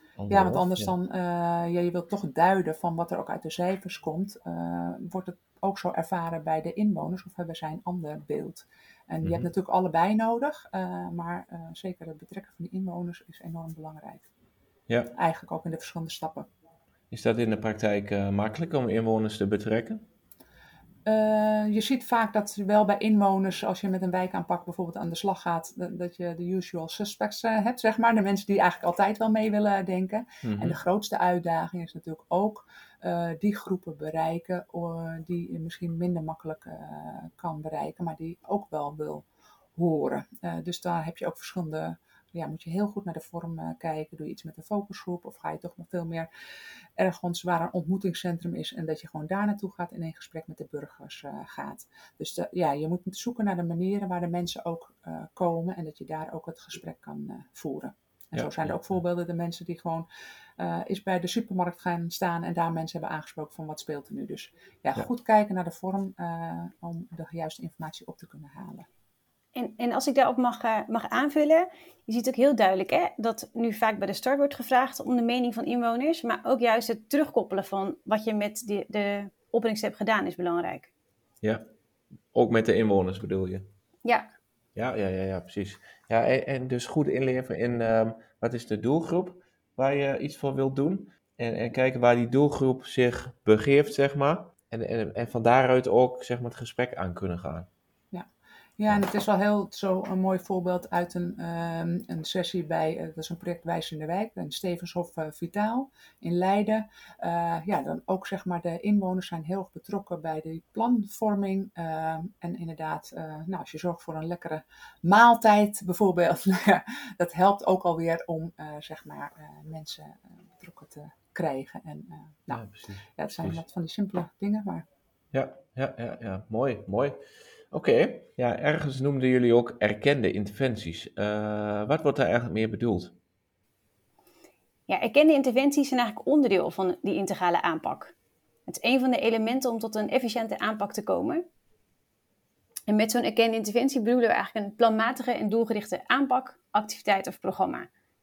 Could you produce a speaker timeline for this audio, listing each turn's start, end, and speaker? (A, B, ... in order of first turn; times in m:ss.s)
0:00.2-0:00.9 A
0:00.3-0:14.3 B
0:09.2-0:09.5 A
0:15.2-0:16.5 B
0:17.1-0:20.0 A
0:21.1-0:39.2 B
0:30.4-0:30.8 A
0:39.8-0:46.3 B
0:47.0-1:00.1 B
0:58.3-0:58.7 A
1:00.6-1:08.9 B
1:09.6-1:20.9 C
1:22.3-1:23.7 A
1:24.0-1:24.3 C
1:24.8-1:37.7 A
1:38.8-2:04.8 B
2:02.5-2:03.6 A
2:05.3-2:07.2 A
2:07.7-2:13.2 A
2:14.9-2:18.2 C
2:18.7-2:21.4 C
2:22.9-2:27.9 C